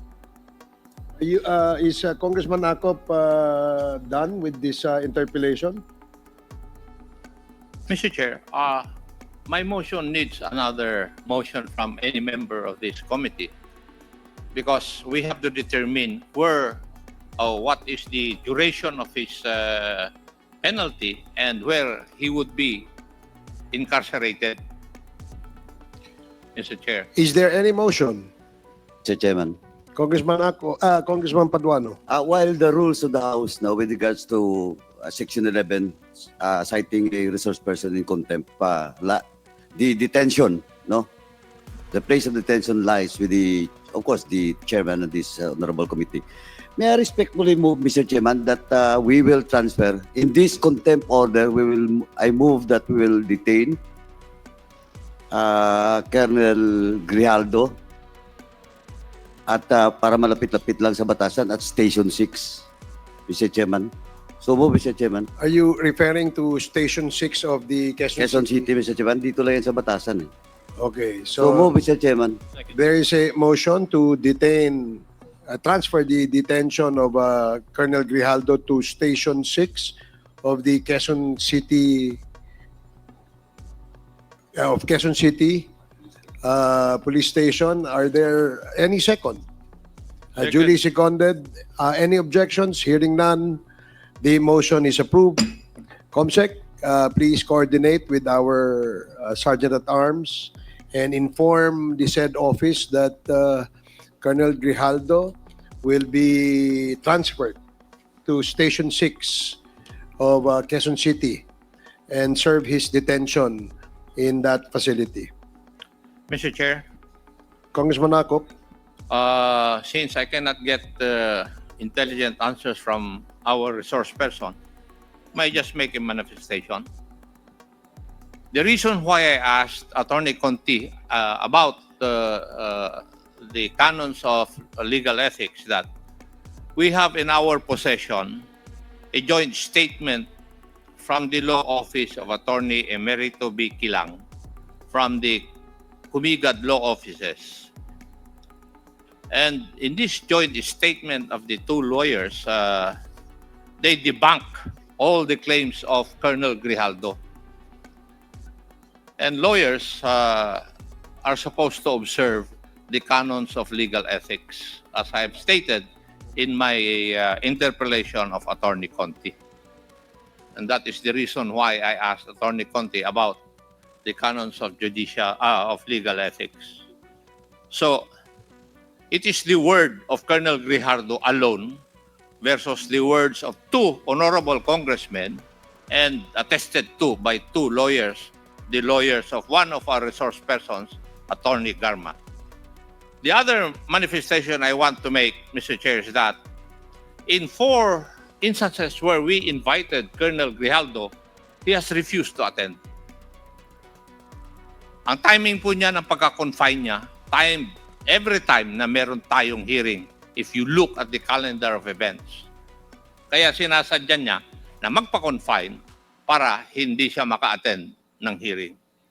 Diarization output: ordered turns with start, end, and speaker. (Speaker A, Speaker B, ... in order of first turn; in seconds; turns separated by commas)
Speaker A: 1.2-5.8, Speaker B: 7.9-8.8, Speaker B: 9.5-13.5, Speaker B: 14.5-16.8, Speaker B: 17.4-20.1, Speaker B: 20.6-22.9, Speaker B: 23.7-24.6, Speaker B: 26.6-27.1, Speaker A: 27.1-28.3, Speaker C: 29.0-29.6, Speaker A: 29.9-32.0, Speaker C: 32.1-39.2, Speaker C: 39.8-41.1, Speaker C: 41.9-46.2, Speaker C: 46.8-53.8, Speaker C: 55.3-57.7, Speaker C: 59.5-62.6, Speaker C: 63.3-65.3, Speaker A: 65.4-68.6, Speaker C: 68.2-70.3, Speaker A: 70.8-71.7, Speaker C: 71.4-72.4, Speaker A: 72.7-82.2, Speaker A: 84.5-85.7, Speaker A: 86.4-89.4, Speaker A: 90.3-93.6, Speaker B: 90.4-90.7, Speaker A: 94.2-95.5, Speaker A: 96.1-103.7, Speaker A: 104.2-107.6, Speaker A: 108.2-109.6, Speaker A: 110.2-111.4, Speaker A: 112.1-115.3, Speaker B: 116.3-116.8, Speaker A: 117.7-118.5, Speaker B: 119.1-124.5, Speaker B: 125.3-126.8, Speaker B: 128.5-135.8, Speaker B: 136.8-138.4, Speaker B: 139.1-140.3, Speaker B: 141.0-144.2, Speaker B: 144.9-145.4, Speaker B: 146.1-147.7, Speaker B: 149.3-152.9, Speaker B: 153.8-157.2, Speaker B: 159.2-160.6, Speaker B: 161.2-169.3, Speaker B: 170.6-173.4, Speaker B: 174.0-176.8, Speaker B: 177.7-178.0, Speaker B: 179.1-181.8, Speaker B: 182.4-192.1, Speaker B: 193.2-196.3, Speaker B: 197.3-201.1, Speaker B: 201.6-202.8, Speaker B: 205.1-212.4, Speaker B: 213.3-218.8